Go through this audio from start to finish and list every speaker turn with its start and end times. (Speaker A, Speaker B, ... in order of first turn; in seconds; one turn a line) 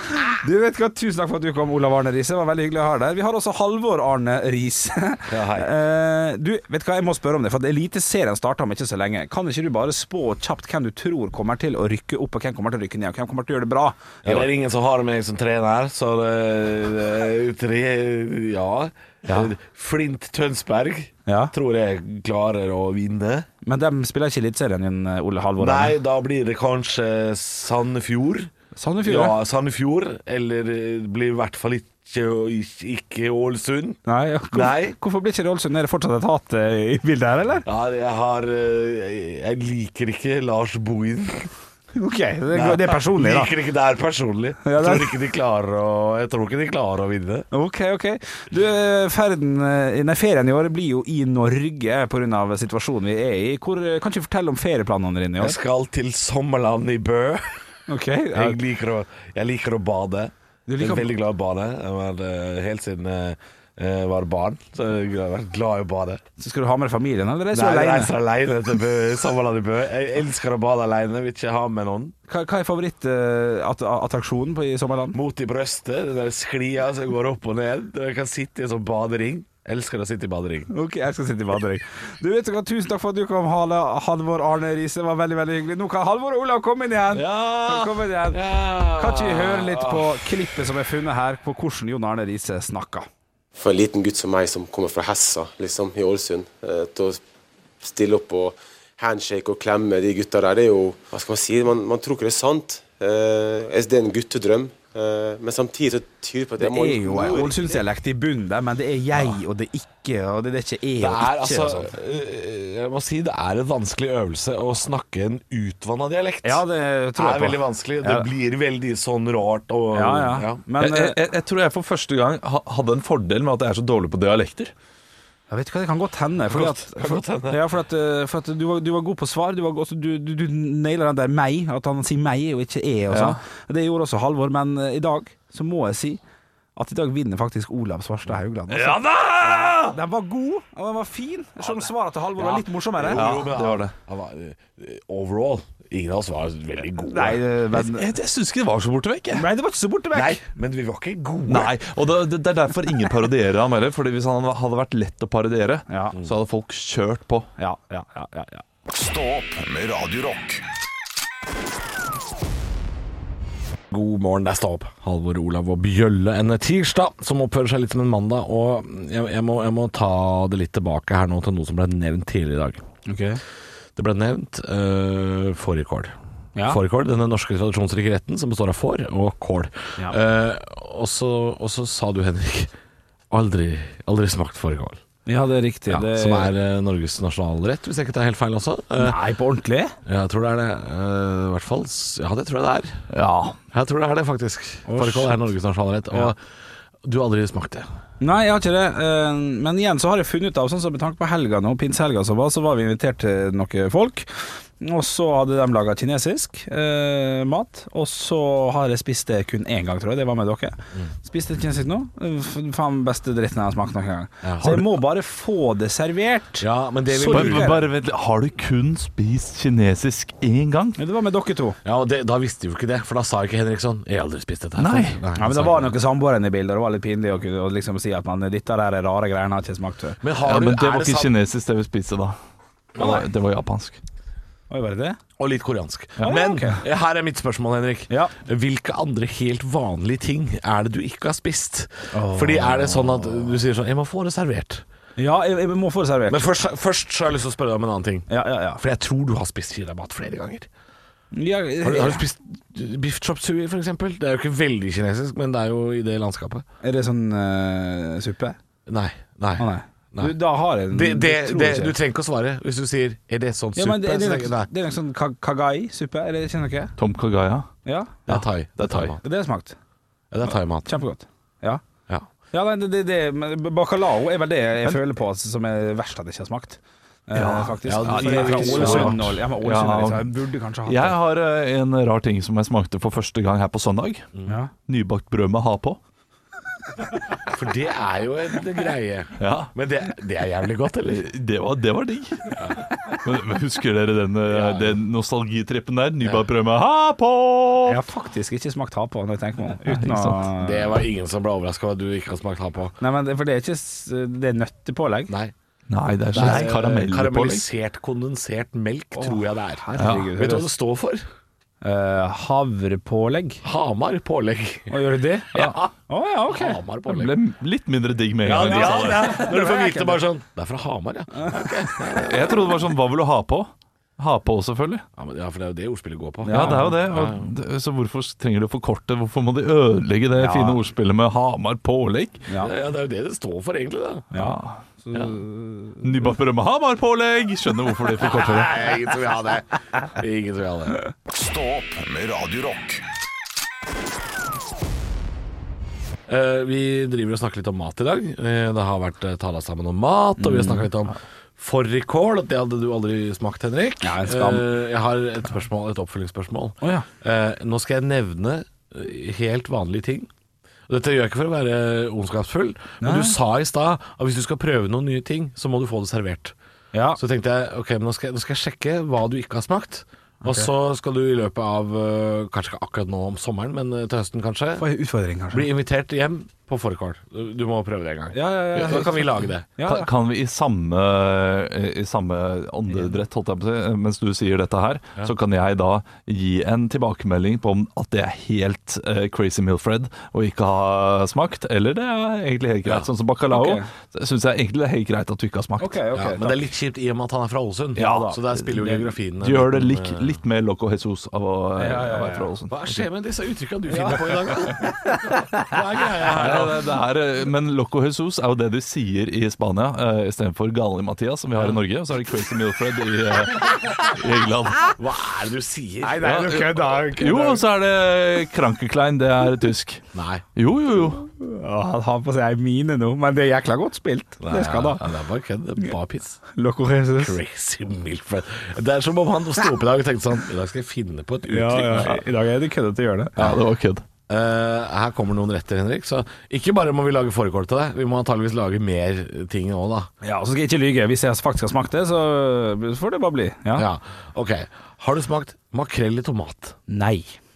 Speaker A: 0.4-14.5
Speaker B: 5.3-5.7
Speaker B: 14.2-23.5
Speaker A: 21.2-21.5
Speaker A: 23.6-25.9
Speaker B: 25.6-28.5
Speaker A: 28.8-29.3
Speaker B: 29.0-34.0
Speaker A: 34.0-37.6
Speaker B: 34.5-35.0
Speaker B: 37.6-41.5
Speaker A: 41.9-43.5
Speaker B: 42.5-47.5
Speaker A: 44.6-45.1
Speaker A: 47.5-55.6
Speaker B: 55.4-57.6
Speaker A: 57.9-58.6
Speaker B: 58.3-66.2
Speaker A: 60.7-61.1
Speaker A: 66.4-68.1
Speaker B: 67.5-72.1
Speaker A: 72.3-75.2
Speaker B: 75.1-80.7
Speaker A: 80.7-88.4
Speaker B: 87.1-90.2
Speaker A: 88.9-93.1
Speaker C: 93.6-97.2
Speaker C: 97.8-107.7
Speaker A: 106.6-111.9
Speaker B: 111.0-116.6
Speaker A: 116.4-118.3
Speaker B: 117.2-120.6
Speaker A: 119.9-121.2
Speaker D: 120.8-124.7
Speaker A: 125.5-136.2
Speaker B: 126.5-127.6
Speaker D: 133.1-133.4
Speaker A: 136.8-143.2
Speaker D: 138.7-139.9
Speaker B: 142.4-147.4
Speaker D: 143.1-143.9
Speaker A: 147.1-148.1
Speaker D: 147.7-149.4
Speaker A: 149.3-150.4
Speaker B: 150.1-151.8
Speaker D: 151.5-157.5
Speaker A: 155.9-156.2
Speaker A: 157.6-158.6
Speaker E: 158.9-160.6
Speaker B: 163.9-172.8
Speaker A: 173.1-173.4
Speaker B: 173.9-182.7
Speaker B: 183.3-185.0
Speaker A: 185.2-186.5
Speaker B: 185.9-189.2
Speaker A: 189.0-189.9
Speaker B: 190.0-193.1
Speaker D: 193.1-193.6
Speaker B: 193.7-196.4
Speaker A: 194.8-195.3
Speaker B: 197.0-197.9
Speaker A: 198.2-217.8
Speaker B: 214.4-214.7
Speaker D: 214.6-214.9
Speaker B: 216.6-217.8
Speaker D: 217.3-221.0
Speaker A: 221.0-221.8
Speaker B: 221.8-225.9
Speaker D: 224.8-225.2
Speaker A: 225.4-230.2
Speaker B: 230.2-231.3
Speaker D: 230.4-232.3
Speaker D: 232.9-234.0
Speaker A: 234.7-235.2
Speaker B: 235.4-244.8
Speaker A: 236.2-236.8
Speaker A: 242.1-243.4
Speaker A: 245.2-246.4
Speaker B: 246.3-250.7
Speaker A: 248.3-248.8
Speaker A: 251.3-252.2
Speaker B: 251.8-256.6
Speaker A: 256.8-258.6
Speaker B: 258.9-260.4
Speaker A: 259.6-261.9
Speaker B: 260.9-264.7
Speaker A: 263.7-266.9
Speaker D: 267.0-267.7
Speaker A: 267.8-268.3
Speaker B: 268.3-269.2
Speaker D: 268.3-269.1
Speaker A: 269.2-269.7
Speaker B: 270.3-270.9
Speaker A: 270.8-271.8
Speaker A: 272.5-281.2
Speaker D: 277.3-280.3
Speaker B: 277.9-279.4
Speaker D: 280.9-286.0
Speaker B: 287.5-291.2
Speaker D: 289.4-289.7
Speaker D: 291.1-298.0
Speaker B: 292.5-292.8
Speaker B: 294.5-295.0
Speaker B: 296.2-296.5
Speaker A: 297.9-301.0
Speaker D: 299.8-300.5
Speaker B: 300.6-302.9
Speaker A: 303.0-305.3
Speaker B: 305.3-305.5
Speaker D: 305.9-307.6
Speaker B: 306.3-311.2
Speaker A: 306.4-306.6
Speaker A: 309.1-310.7
Speaker D: 310.0-310.3
Speaker A: 311.8-313.6
Speaker B: 313.6-315.0
Speaker A: 314.9-315.5
Speaker B: 315.5-315.9
Speaker A: 316.1-316.8
Speaker B: 316.5-317.4
Speaker D: 317.1-319.4
Speaker B: 318.4-322.8
Speaker A: 318.6-320.2
Speaker A: 321.4-321.7
Speaker D: 322.2-325.0
Speaker B: 325.2-327.5
Speaker A: 326.4-327.0
Speaker D: 326.5-332.4
Speaker A: 330.4-330.8
Speaker A: 332.5-332.7
Speaker B: 332.6-334.3
Speaker A: 334.3-336.1
Speaker D: 334.3-334.8
Speaker D: 336.0-338.7
Speaker B: 338.2-341.0
Speaker E: 341.3-343.0
Speaker B: 346.3-360.3
Speaker A: 350.4-350.9
Speaker A: 354.0-354.7
Speaker A: 356.8-357.1
Speaker B: 360.9-366.5
Speaker A: 363.0-363.4
Speaker A: 366.9-367.2
Speaker B: 367.2-374.8
Speaker A: 370.4-370.7
Speaker A: 374.8-375.7
Speaker B: 375.5-379.7
Speaker A: 378.3-380.1
Speaker D: 379.8-396.0
Speaker A: 393.5-393.9
Speaker A: 395.8-396.6
Speaker B: 396.1-400.4
Speaker A: 398.0-398.4
Speaker D: 399.4-403.0
Speaker A: 401.8-402.5
Speaker B: 402.7-406.9
Speaker A: 403.9-405.7
Speaker D: 406.3-414.9
Speaker B: 414.9-416.3
Speaker A: 416.0-417.6
Speaker D: 416.2-420.0
Speaker B: 420.1-420.4
Speaker D: 420.5-421.2
Speaker A: 421.2-425.0
Speaker B: 424.4-426.4
Speaker A: 426.5-427.4
Speaker B: 427.1-432.2
Speaker A: 431.5-433.5
Speaker D: 433.4-434.0
Speaker B: 434.3-440.1
Speaker A: 440.2-443.9
Speaker B: 443.7-446.8
Speaker A: 446.9-447.4